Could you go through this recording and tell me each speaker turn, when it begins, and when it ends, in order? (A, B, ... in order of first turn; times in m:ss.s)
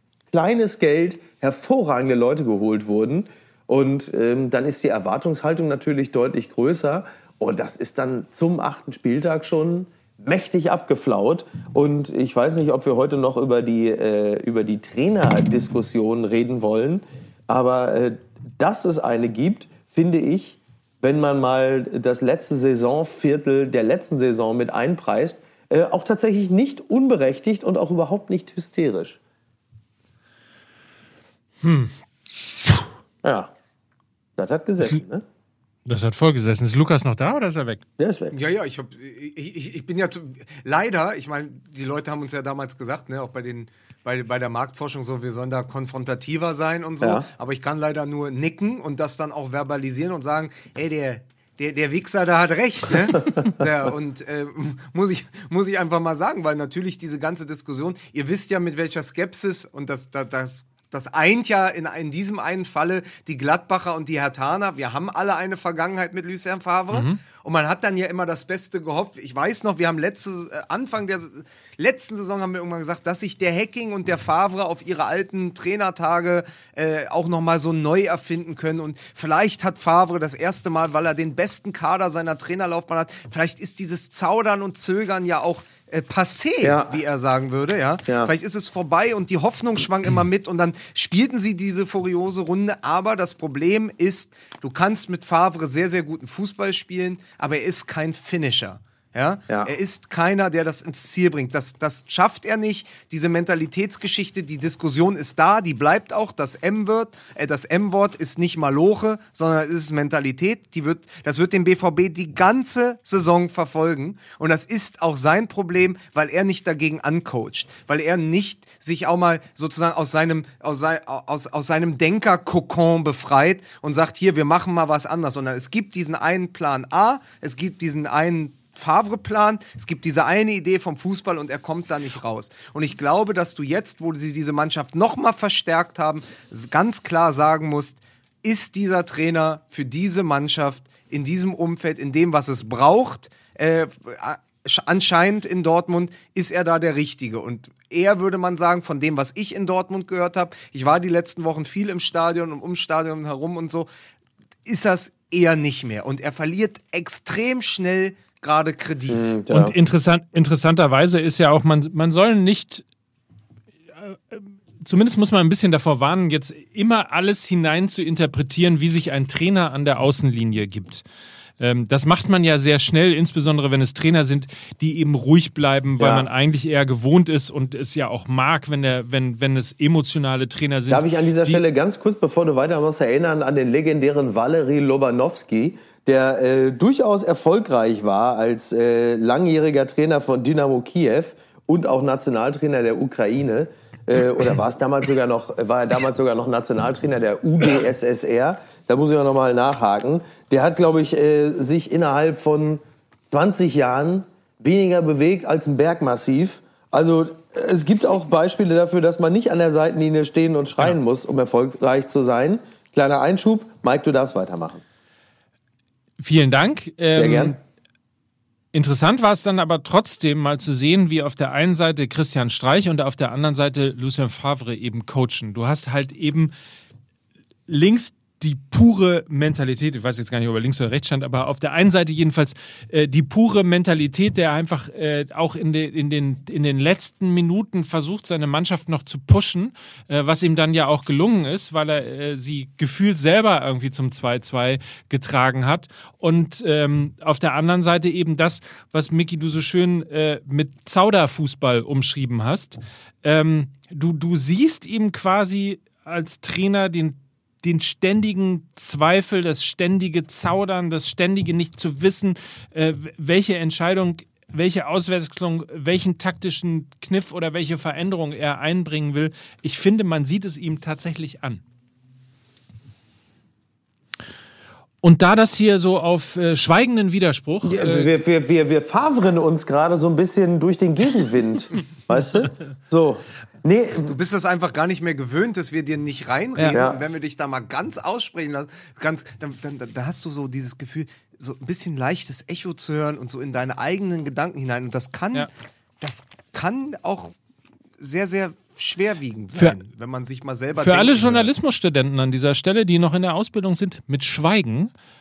0:00.3-0:29.2 A
0:31.6-0:32.0 B
0:33.2-0:33.5 A
0:34.4-0:35.2 A
0:35.9-0:37.8 B
0:38.0-0:38.4 A
0:38.3-2:33.9 C
0:47.0-0:47.3 A
1:06.9-1:07.2 B
1:26.6-1:26.9 A
1:28.1-1:28.3 A
2:34.7-2:39.3 C
2:39.1-2:39.7 A
2:39.5-2:42.8 B
2:44.0-2:51.0 B
2:51.6-3:01.6 B
2:56.0-2:56.3 A
3:00.9-3:34.8 A
3:36.2-3:37.6 B
3:37.1-3:37.6 A
3:38.7-3:46.5 B
3:47.7-4:31.6 B
4:35.0-4:38.1 B
4:37.6-4:44.2 A
4:44.1-4:55.5 C
4:46.7-4:47.0 A
4:56.0-4:57.3 C
4:58.0-5:01.5 C
5:00.8-5:04.9 B